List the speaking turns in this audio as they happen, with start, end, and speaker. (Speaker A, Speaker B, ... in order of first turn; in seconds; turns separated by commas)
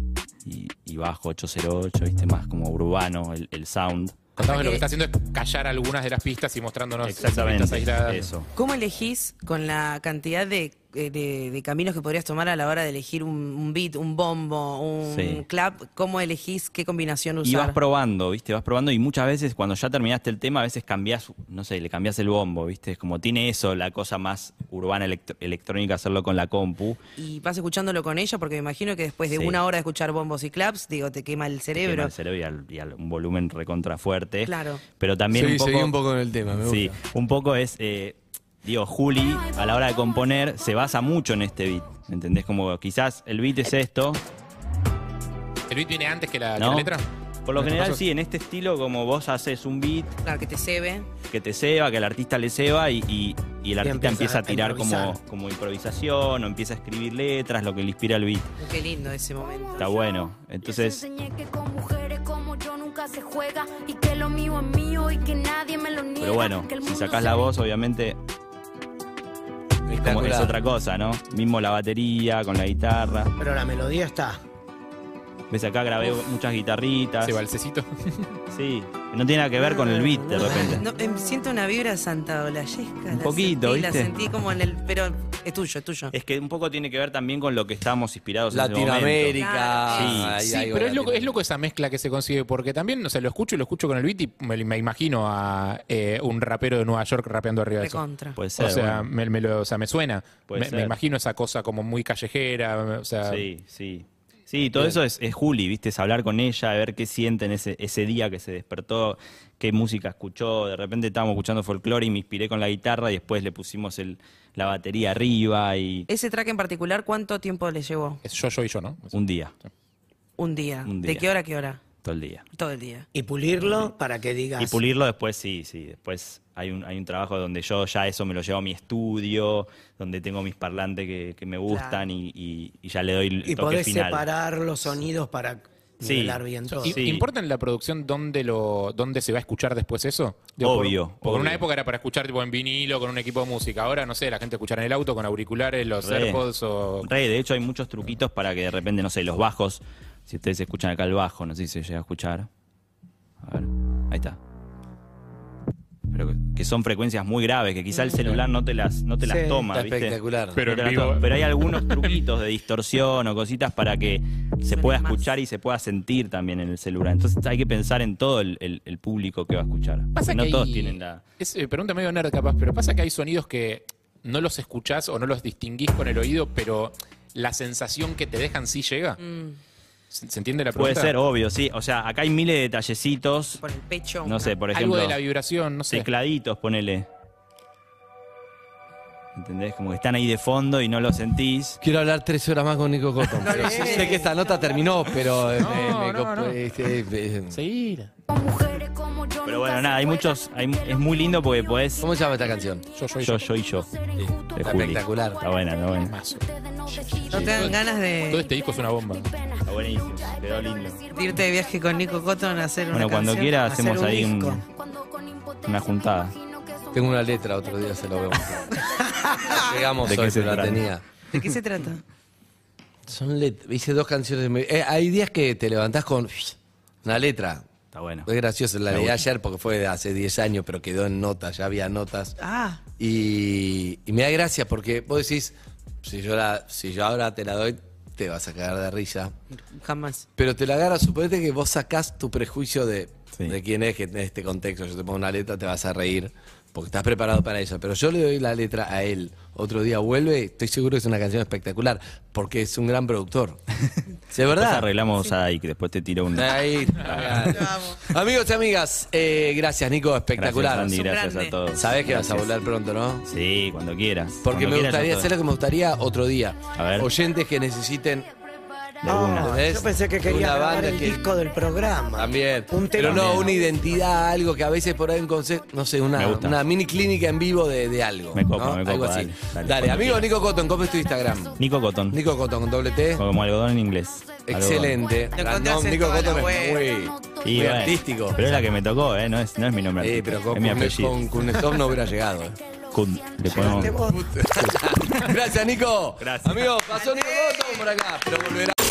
Speaker A: 0.4-4.3, Speaker B: 4.4-8.3, Speaker C: 4.4-4.8, Speaker A: 7.0-8.5, Speaker C: 8.5-17.8, Speaker A: 15.0-15.4, Speaker A: 17.4-27.0, Speaker C: 27.2-32.1, Speaker A: 29.3-29.6, Speaker A: 31.8-35.9, Speaker C: 34.4-34.8, Speaker D: 35.3-37.0, Speaker A: 36.6-44.2, Speaker E: 39.1-40.4, Speaker B: 45.7-47.0, Speaker A: 46.6-46.9, Speaker A: 47.5-50.1, Speaker B: 47.6-48.0, Speaker C: 50.2-51.1, Speaker A: 51.3-58.5, Speaker F: 53.8-55.2, Speaker C: 58.6-59.8, Speaker E: 59.4-67.7, Speaker A: 59.8-61.0, Speaker A: 66.2-68.2, Speaker D: 69.9-70.5, Speaker A: 70.0-73.3, Speaker F: 73.4-74.4, Speaker A: 75.5-77.4, Speaker B: 77.2-78.3, Speaker A: 78.5-80.8, Speaker C: 80.3-86.1, Speaker A: 83.1-84.1, Speaker A: 86.1-90.4, Speaker D: 88.5-91.4, Speaker C: 89.3-90.1, Speaker B: 90.4-98.0, Speaker C: 97.8-98.4, Speaker A: 98.3-99.1, Speaker B: 98.5-103.5, Speaker A: 100.5-101.0, Speaker A: 103.2-116.1, Speaker C: 116.1-118.2, Speaker B: 118.2-119.2, Speaker A: 119.1-119.5, Speaker C: 120.4-121.8, Speaker A: 120.8-121.2, Speaker A: 122.0-122.4, Speaker C: 122.5-123.0, Speaker F: 123.1-124.8, Speaker A: 124.6-134.2, Speaker C: 131.7-132.1, Speaker F: 133.5-137.0, Speaker A: 136.0-137.3, Speaker B: 136.8-147.1, Speaker A: 140.6-141.6, Speaker A: 146.0-146.4, Speaker A: 147.0-152.5, Speaker A: 153.4-154.4, Speaker A: 156.1-171.2, Speaker C: 157.9-158.4, Speaker F: 159.2-159.6, Speaker D: 159.7-160.6, Speaker B: 160.6-162.2, Speaker C: 164.7-165.3, Speaker B: 170.1-179.2, Speaker C: 179.2-179.6, Speaker B: 180.1-181.2, Speaker A: 180.7-183.6, Speaker C: 183.6-184.6, Speaker A: 184.2-185.2, Speaker B: 184.7-186.1, Speaker A: 185.9-187.1, Speaker A: 189.3-191.8, Speaker D: 191.8-197.6, Speaker C: 193.4-194.3, Speaker B: 195.5-196.6, Speaker B: 197.5-198.1, Speaker E: 198.3-212.8, Speaker A: 199.4-202.1, Speaker D: 202.0-202.8, Speaker B: 202.9-203.4, Speaker A: 203.2-203.9, Speaker D: 204.2-205.4, Speaker A: 204.5-206.2, Speaker B: 206.0-206.4, Speaker B: 207.1-207.8, Speaker C: 207.3-208.4, Speaker B: 208.3-209.3, Speaker A: 209.7-211.0, Speaker C: 211.1-213.5, Speaker A: 212.9-214.6, Speaker F: 213.6-214.6, Speaker E: 214.6-219.8, Speaker A: 215.7-216.3, Speaker D: 216.9-218.8, Speaker C: 219.5-219.7, Speaker D: 219.5-221.5, Speaker A: 220.0-220.8, Speaker C: 221.3-222.0, Speaker D: 223.1-227.6, Speaker A: 227.9-228.3, Speaker D: 228.2-232.4, Speaker A: 228.9-229.2, Speaker C: 232.4-232.8, Speaker D: 233.0-239.3, Speaker C: 239.6-240.2, Speaker D: 240.4-253.6, Speaker D: 254.3-254.9, Speaker A: 254.5-257.8, Speaker D: 256.3-260.9, Speaker C: 257.6-257.9, Speaker A: 260.4-262.6, Speaker C: 260.8-261.5, Speaker D: 261.7-263.2, Speaker A: 263.2-265.3, Speaker D: 264.4-268.3, Speaker A: 266.7-267.1, Speaker E: 268.2-269.7, Speaker A: 269.0-269.6, Speaker F: 269.1-273.4, Speaker D: 269.4-271.2, Speaker E: 270.5-274.4, Speaker D: 272.1-283.2, Speaker A: 273.0-273.6, Speaker A: 276.1-276.6, Speaker A: 278.3-280.3, Speaker E: 280.4-281.6, Speaker A: 281.6-282.2, Speaker A: 283.2-285.0, Speaker E: 284.2-289.6, Speaker D: 284.5-288.6, Speaker C: 285.4-286.8, Speaker A: 287.4-291.2, Speaker D: 290.0-292.6, Speaker E: 291.5-294.2, Speaker A: 292.9-293.9, Speaker F: 293.5-294.2, Speaker D: 293.5-298.8, Speaker A: 296.2-296.8